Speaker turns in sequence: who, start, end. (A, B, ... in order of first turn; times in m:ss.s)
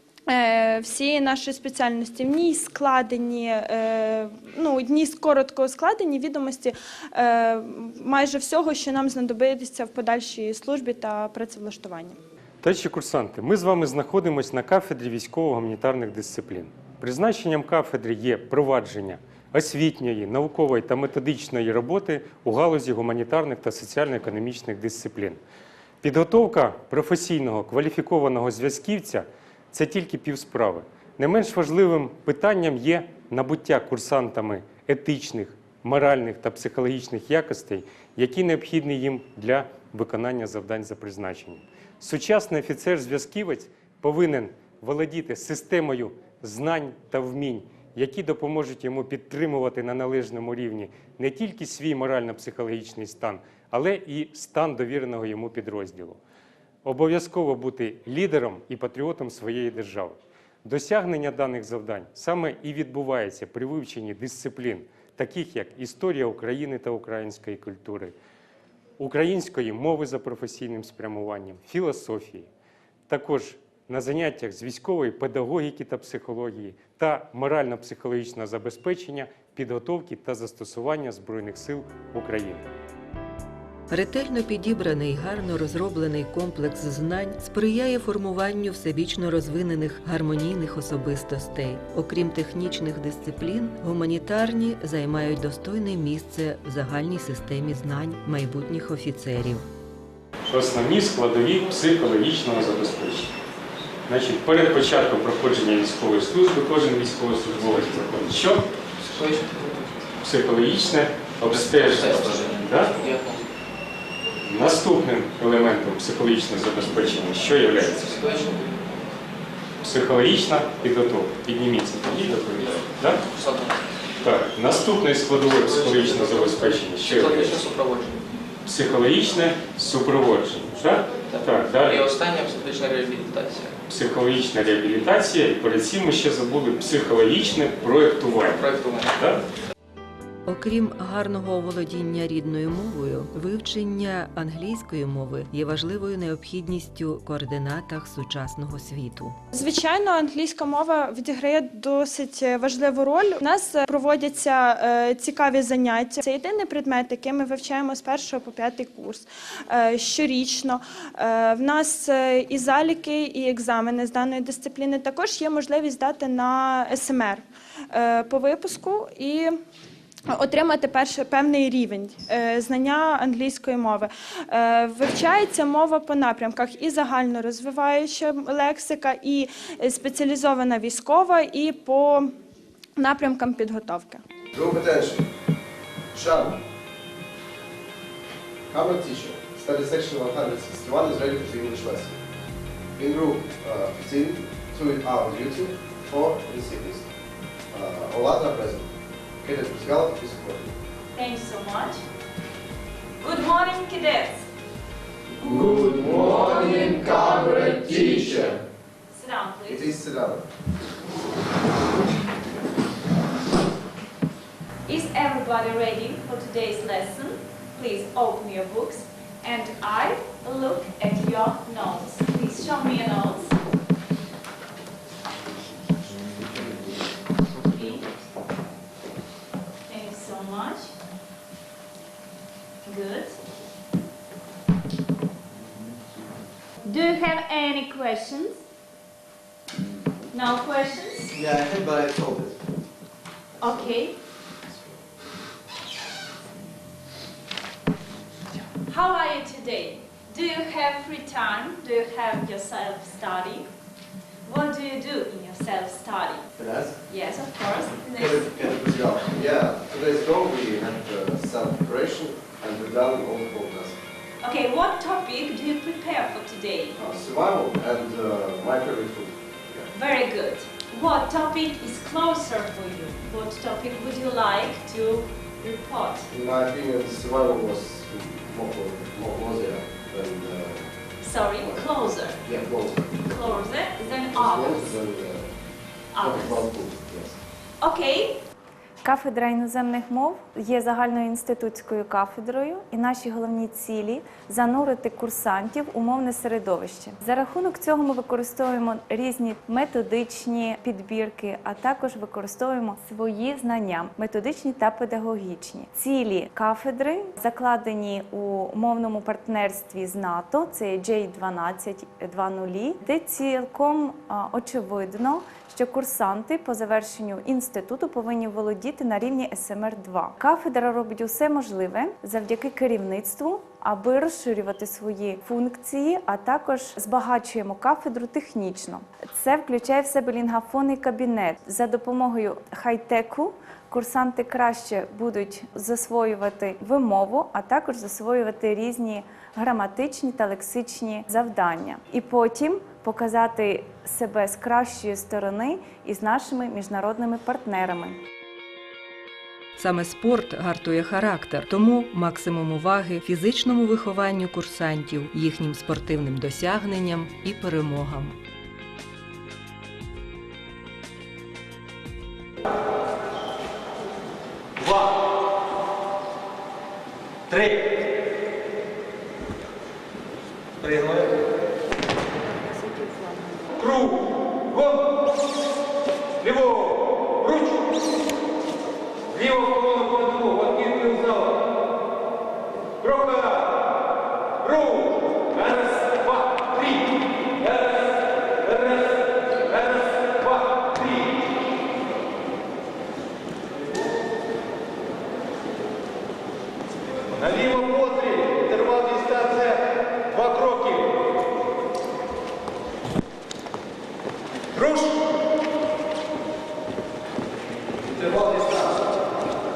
0:00.3-0:12.2 A
0:12.6-0:25.4 B
0:26.0-0:56.2 B
0:56.8-1:08.1 B
1:09.0-1:12.5 B
1:13.1-1:22.6 B
1:23.9-1:39.6 C
1:40.5-1:43.3 B
1:44.1-1:48.6 B
1:49.0-1:50.1 D
1:50.2-1:52.9 B
1:51.5-1:53.5 D
1:54.4-1:58.0 B
1:57.6-1:59.1 D
1:59.8-2:03.2 B
2:02.5-2:03.8 D
2:04.2-2:07.6 B
2:05.3-2:08.4 D
2:08.6-2:12.0 B
2:11.2-2:13.8 D
2:13.9-2:18.6 B
2:18.4-2:19.1 D
2:19.1-2:19.4 B
2:20.4-2:29.4 C
2:29.5-2:49.6 A
2:50.3-3:02.3 A
3:03.0-3:04.2 A
3:04.5-3:05.3 E
3:06.1-3:06.6 E
3:08.7-3:12.2 E
3:13.0-3:17.1 E
3:17.7-3:18.9 E
3:19.4-3:20.7 E
3:21.1-3:22.0 F
3:23.2-3:24.5 F
3:25.4-3:27.3 E
3:27.9-3:28.6 E
3:29.1-3:29.9 F
3:29.7-3:30.4 E
3:34.9-3:43.6 F
3:47.6-3:48.1 F
3:49.9-3:50.9 F
3:52.8-3:53.3 F
3:56.8-3:58.6 F
4:00.3-4:01.3 F
4:01.3-4:02.6 E
4:03.6-4:04.1 F
4:08.9-4:13.7 F
4:14.4-4:16.5 F
4:16.6-4:17.0 E
4:17.1-4:18.6 F
4:18.1-4:24.0 E
4:24.4-4:26.9 F
4:27.0-4:29.9 E
4:29.9-4:36.2 F
4:36.3-4:40.9 E
4:41.2-4:42.4 F
4:42.4-4:43.6 E
4:43.2-4:44.9 F
4:44.3-4:45.5 E
4:46.1-4:46.6 F
4:46.2-4:47.4 E
4:47.8-4:48.4 F
4:49.0-5:48.2 G
5:49.8-5:58.4 C
6:04.8-6:05.1 H
6:07.5-6:07.9 H
6:10.8-6:11.4 H
6:12.5-6:13.7 F
6:13.8-6:15.1 H
6:16.4-6:17.8 H
6:19.3-6:21.6 H
6:23.0-6:23.8 H
6:24.6-6:31.3 H
6:37.4-6:41.2 H
6:44.7-6:45.3 H
6:48.0-6:49.0 H